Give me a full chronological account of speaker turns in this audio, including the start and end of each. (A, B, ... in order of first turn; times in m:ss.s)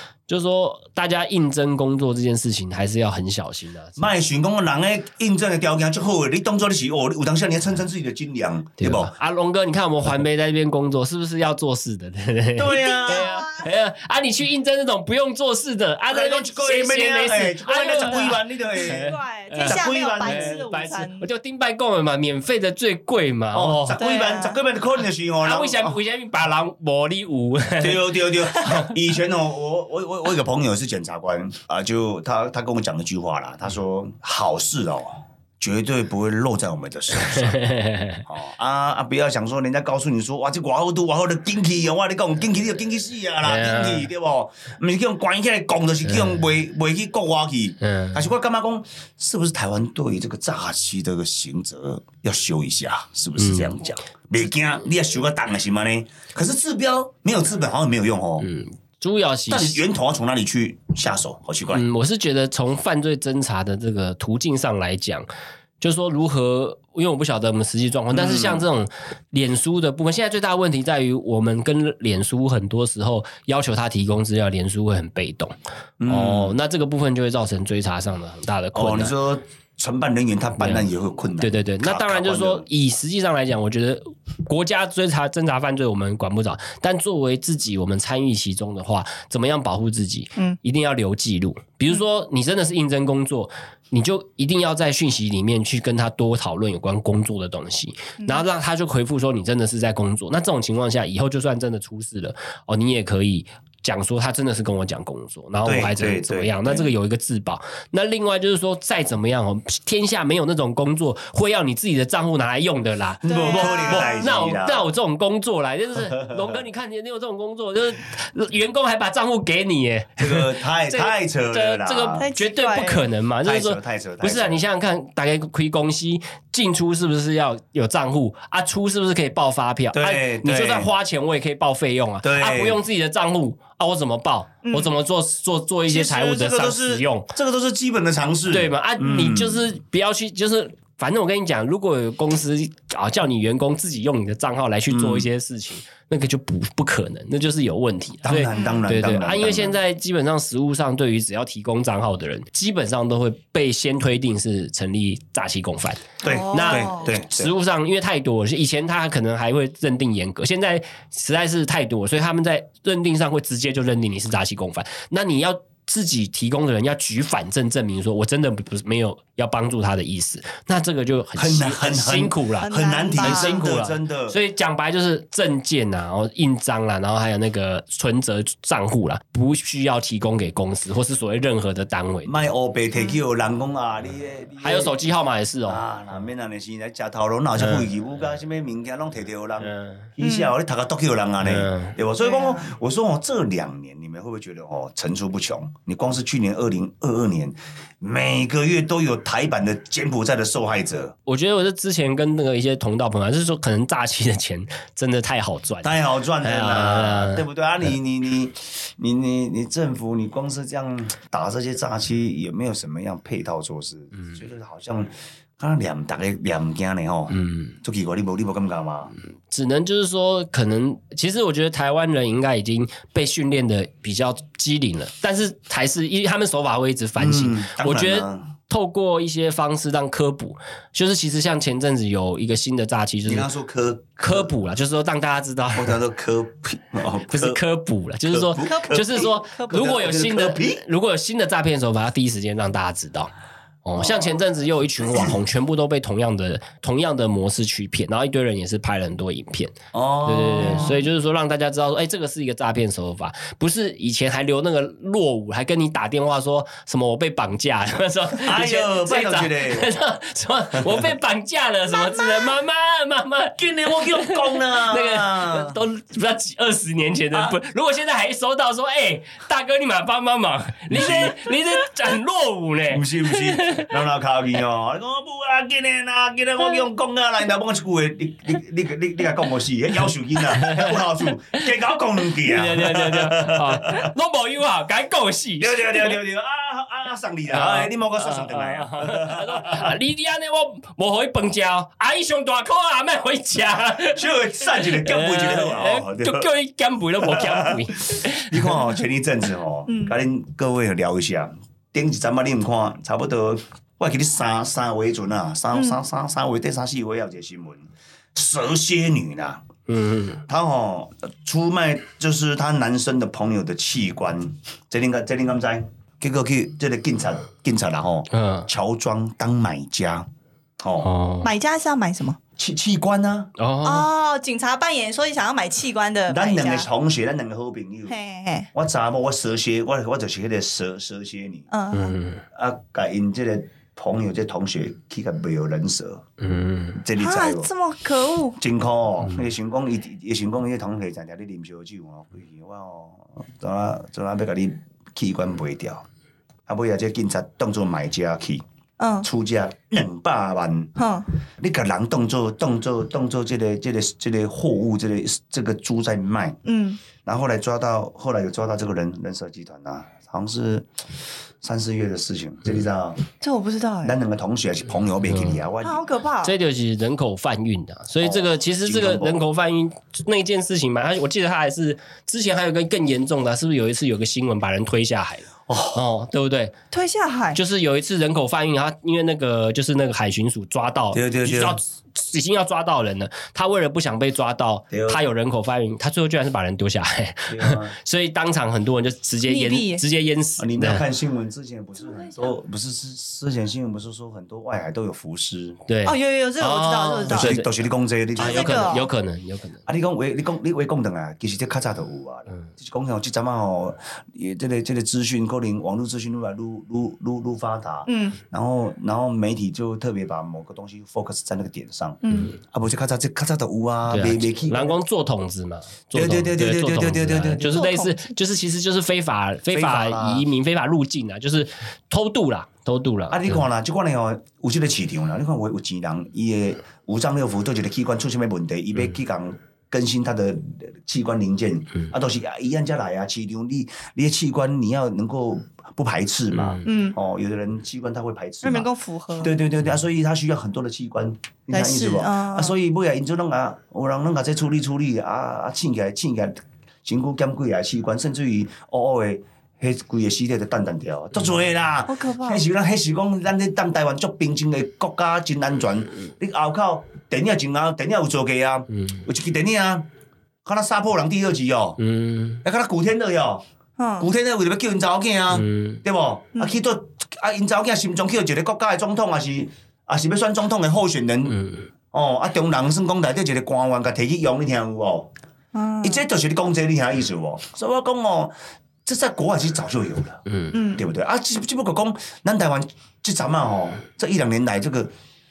0:00.3-0:04.1 A
0:04.0-0:09.1 B
0:08.8-0:24.0 A
0:12.6-0:13.3 B
0:12.7-0:13.7 C
0:16.1-0:20.6 B
0:18.1-0:21.3 C
0:23.5-0:26.0 B
0:24.0-0:24.6 C
0:25.4-0:28.9 A
0:27.8-0:37.6 B
0:37.3-0:38.2 A
0:38.3-0:58.5 B
0:43.4-0:44.1 A
0:46.1-0:46.4 A
0:47.8-0:48.3 A
0:53.4-0:53.7 A
0:58.4-0:59.8 A
0:59.5-1:01.8 B
1:01.7-1:05.3 A
1:05.8-1:15.5 A
1:08.1-1:08.7 B
1:16.0-1:16.6 B
1:16.1-1:19.1 A
1:18.7-1:22.7 B
1:20.6-1:20.9 A
1:21.4-2:17.3 A
1:38.2-1:38.5 C
1:45.6-1:46.9 B
1:53.2-1:54.9 B
1:53.3-1:54.2 C
1:56.0-1:56.6 B
2:00.2-2:02.2 B
2:02.2-2:03.0 C
2:03.4-2:04.6 B
2:09.9-2:10.9 B
2:12.2-2:12.8 B
2:14.6-2:14.9 C
2:15.9-2:19.8 B
2:18.5-3:02.4 A
2:24.9-2:25.3 B
2:28.2-2:29.8 B
2:28.5-2:28.9 C
2:36.2-2:37.5 B
2:36.2-2:37.1 C
2:51.4-2:54.4 B
2:52.6-2:53.6 C
3:02.3-3:05.0 B
3:04.6-3:05.8 A
3:05.7-3:21.2 B
3:07.6-3:07.9 A
3:09.6-3:10.1 A
3:10.2-3:10.5 C
3:11.4-3:12.0 A
3:12.2-3:12.7 C
3:21.3-3:27.4 A
3:25.8-3:39.1 B
3:37.3-3:37.8 A
3:39.5-3:53.5 A
3:47.2-3:48.5 B
3:53.3-3:54.5 B
3:54.2-3:56.0 A
3:55.8-3:57.6 B
3:57.3-4:03.3 A
3:58.3-4:00.8 B
3:58.6-3:59.8 C
4:03.8-4:34.0 A
4:04.0-4:04.4 B
4:05.0-4:05.4 B
4:09.9-4:11.0 B
4:10.6-4:11.0 C
4:18.4-4:19.9 B
4:20.8-4:21.1 B
4:23.6-4:25.8 B
4:30.9-4:31.5 B
4:32.9-4:44.1 B
4:40.5-4:41.0 A
4:42.4-4:46.2 A
4:45.6-4:50.0 B
4:47.5-4:59.0 A
4:54.1-4:56.5 B
4:57.2-5:09.6 B
4:59.9-5:00.2 C
5:09.9-5:10.4 A
5:10.5-5:20.3 B
5:18.3-5:18.7 A
5:20.8-5:21.1 B
5:21.0-5:21.5 A
5:21.4-5:22.4 C
5:22.6-5:23.5 B
5:23.6-5:24.1 A
5:23.8-5:26.9 C
5:26.3-5:28.1 B
5:28.1-5:28.7 C
5:28.7-5:31.7 B
5:31.7-5:32.2 C
5:31.9-5:32.4 A
5:32.5-5:36.2 B
5:36.4-5:37.0 A
5:37.0-5:37.7 B
5:37.2-5:38.6 C
5:38.6-5:46.1 B
5:46.7-5:48.6 B
5:49.0-5:49.3 C
5:49.2-5:50.9 B
5:51.0-5:51.3 C
5:51.6-5:56.6 B
5:56.6-5:57.0 C
5:57.2-6:03.2 B
6:03.4-6:04.2 C
6:04.0-6:06.0 B
6:05.3-6:05.6 A
6:05.8-6:06.5 C
6:06.4-6:16.7 A
6:08.2-6:09.4 B
6:15.7-6:16.0 B
6:16.9-6:17.6 C
6:17.6-6:31.1 A
6:21.1-6:21.8 B
6:24.9-6:25.2 B
6:27.5-6:28.0 B
6:29.5-6:30.0 C
6:30.6-6:35.8 B
6:32.0-6:32.4 C
6:35.9-6:37.8 A
6:36.0-6:37.5 C
6:37.3-6:39.0 B
6:38.4-6:39.8 A
6:38.4-6:39.1 C
6:39.9-6:55.0 B
6:48.1-6:48.4 C
6:52.2-6:52.6 C
6:54.1-7:03.6 A
6:56.1-6:57.8 B
6:57.6-6:58.3 C
6:59.7-7:00.5 B
7:03.3-7:40.1 B
7:16.5-7:16.8 A
7:16.8-7:17.2 C
7:18.6-7:19.5 C
7:21.7-7:22.8 C
7:32.1-7:32.6 C
7:40.6-7:42.0 B
7:42.0-7:42.6 A
7:42.6-7:43.6 B
7:44.0-7:44.3 C
7:44.2-7:51.6 B
7:45.5-7:46.0 A
7:51.5-7:51.9 A
7:52.1-7:55.3 B
7:55.7-7:56.2 C
7:56.0-7:58.5 B
7:59.0-8:00.4 B
8:00.5-8:00.8 A
8:00.7-8:01.0 C
8:01.0-8:05.1 B